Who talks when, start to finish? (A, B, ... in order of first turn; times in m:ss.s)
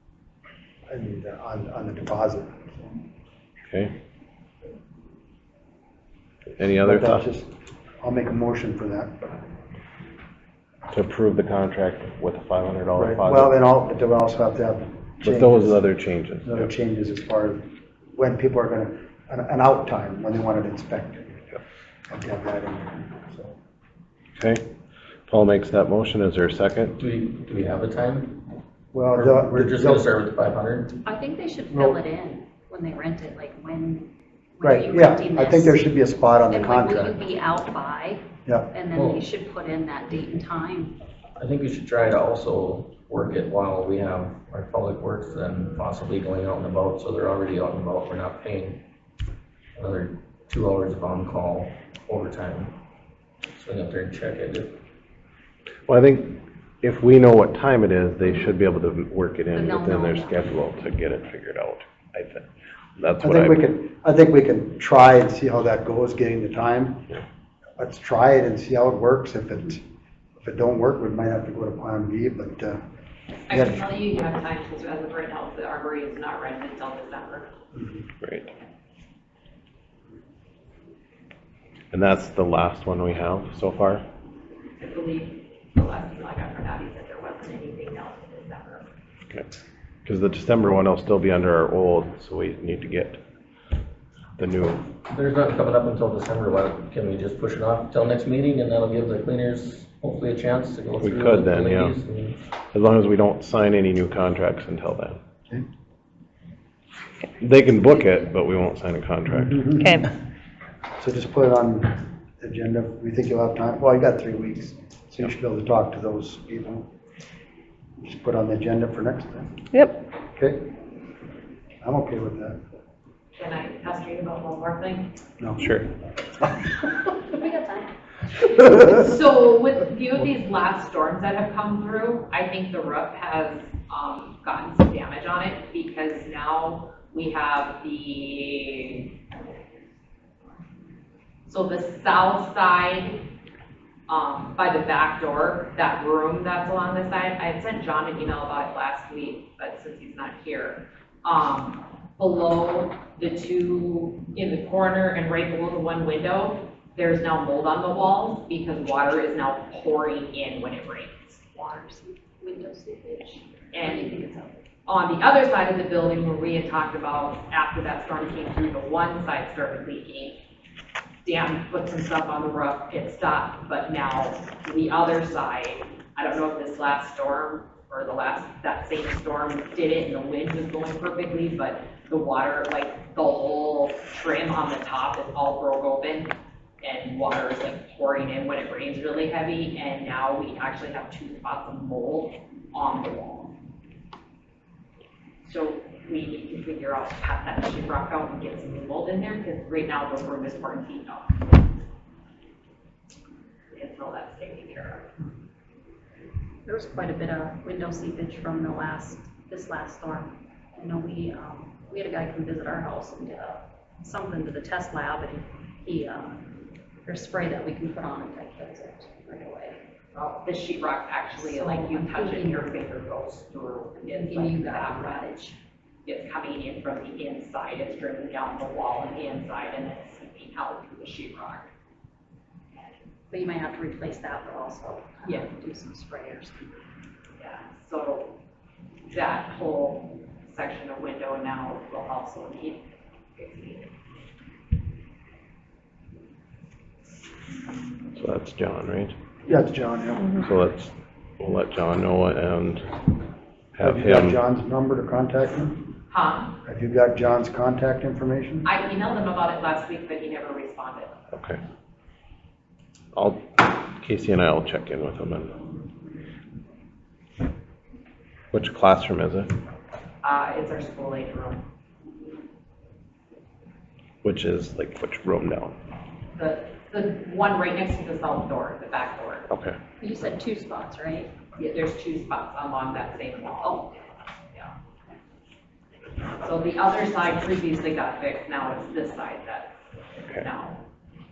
0:00.9-0:03.0 A
0:06.6-0:07.3 B
0:06.8-0:09.3 A
0:10.9-0:13.6 B
0:13.0-0:15.8 A
0:15.2-0:16.7 B
0:16.4-0:21.4 A
0:22.1-0:23.6 A
0:25.3-0:27.0 B
0:27.0-0:28.4 C
0:28.9-0:30.0 A
0:29.1-0:31.0 C
0:31.0-0:35.8 D
0:31.7-0:32.0 A
0:34.6-0:37.2 A
0:36.5-0:41.0 D
0:38.4-0:38.7 A
0:38.9-0:39.2 C
0:41.4-0:48.8 C
0:49.8-0:52.7 C
0:53.5-0:54.7 C
0:55.9-1:03.7 B
0:59.5-1:00.4 D
1:03.2-1:07.1 A
1:07.8-1:09.8 A
1:10.4-1:12.8 A
1:13.5-1:17.5 E
1:13.5-1:13.8 A
1:17.7-1:18.1 A
1:18.2-1:18.5 B
1:21.9-1:24.0 B
1:24.8-1:28.9 E
1:30.0-1:33.2 B
1:34.4-1:34.8 B
1:35.1-1:42.4 C
1:41.0-1:41.9 B
1:42.7-1:45.2 B
1:47.4-1:49.8 B
1:49.3-1:50.1 A
1:51.0-1:56.9 A
1:58.0-1:59.8 A
2:00.3-2:00.6 A
2:01.8-2:02.6 A
2:03.4-2:05.1 E
2:05.4-2:05.7 A
2:05.6-2:05.9 B
2:07.3-2:07.9 D
2:08.4-2:19.1 E
2:21.4-2:23.3 E
2:24.1-2:41.4 E
2:41.5-2:44.6 D
2:43.7-2:44.2 E
2:44.8-2:50.4 E
2:51.2-3:13.5 E
3:15.4-3:21.5 E
3:23.7-3:25.1 E
3:26.6-3:36.4 D
3:37.0-3:39.8 D
3:40.1-3:45.4 E
3:41.4-3:42.7 D
3:44.1-3:45.6 D
3:46.0-3:51.7 E
3:53.3-3:56.8 D
3:57.4-3:58.4 E
3:59.0-4:03.9 E
4:08.2-4:09.1 B
4:09.5-4:10.4 A
4:10.4-4:12.8 B
4:13.8-4:14.4 B
4:13.8-4:15.8 A
4:16.1-4:16.6 E
4:16.6-4:18.6 A
4:18.6-4:21.2 E
4:21.3-4:21.6 B
4:23.1-4:25.7 B
4:28.5-4:29.5 B
4:30.2-4:31.6 E
4:34.2-4:35.7 B
4:36.3-4:39.5 E
4:39.5-4:39.8 B
4:40.0-4:41.3 D
4:41.6-4:43.8 E
4:43.6-4:43.9 D
4:46.4-4:49.7 E
4:50.3-4:50.8 E